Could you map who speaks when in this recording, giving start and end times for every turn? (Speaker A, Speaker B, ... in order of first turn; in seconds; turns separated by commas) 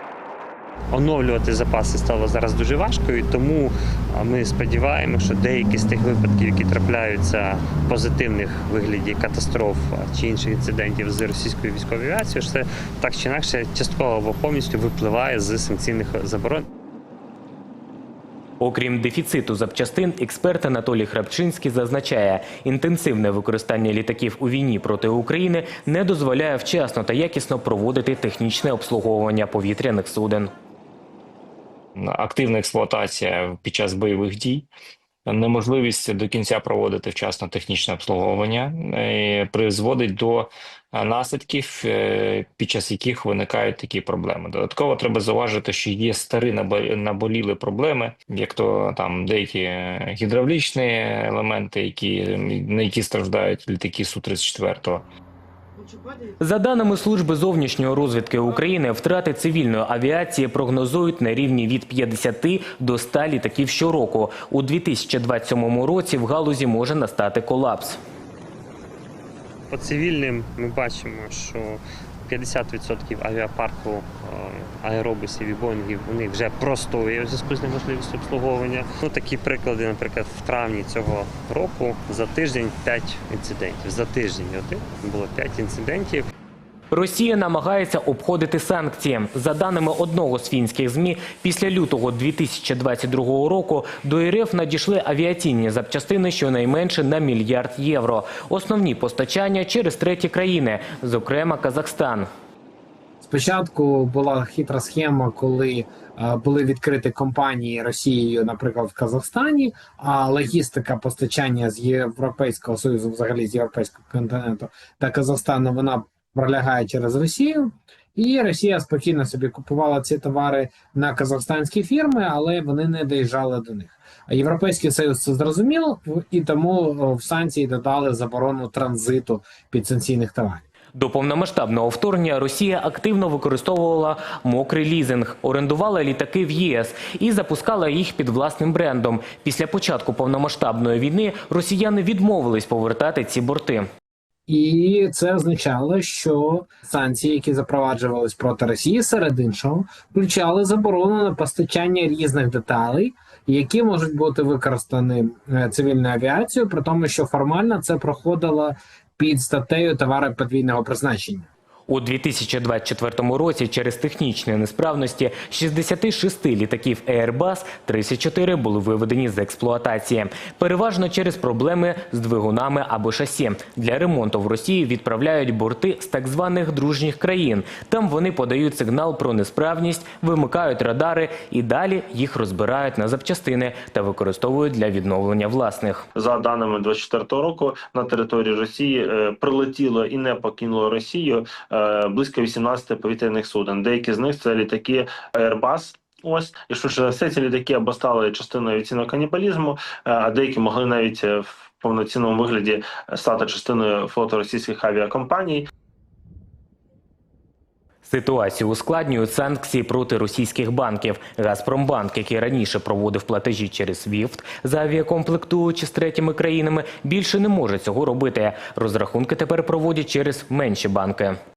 Speaker A: 0.9-16.7, Speaker B: 18.6-30.5, Speaker C: 32.0-34.6, Speaker C: 35.3-55.0, Speaker B: 56.4-68.0, Speaker A: 69.7-86.3, Speaker B: 86.9-102.2, Speaker D: 103.2-130.6, Speaker B: 130.9-143.9, Speaker D: 144.5-161.5, Speaker B: 161.9-186.1, Speaker E: 186.2-205.7, Speaker B: 208.0-221.4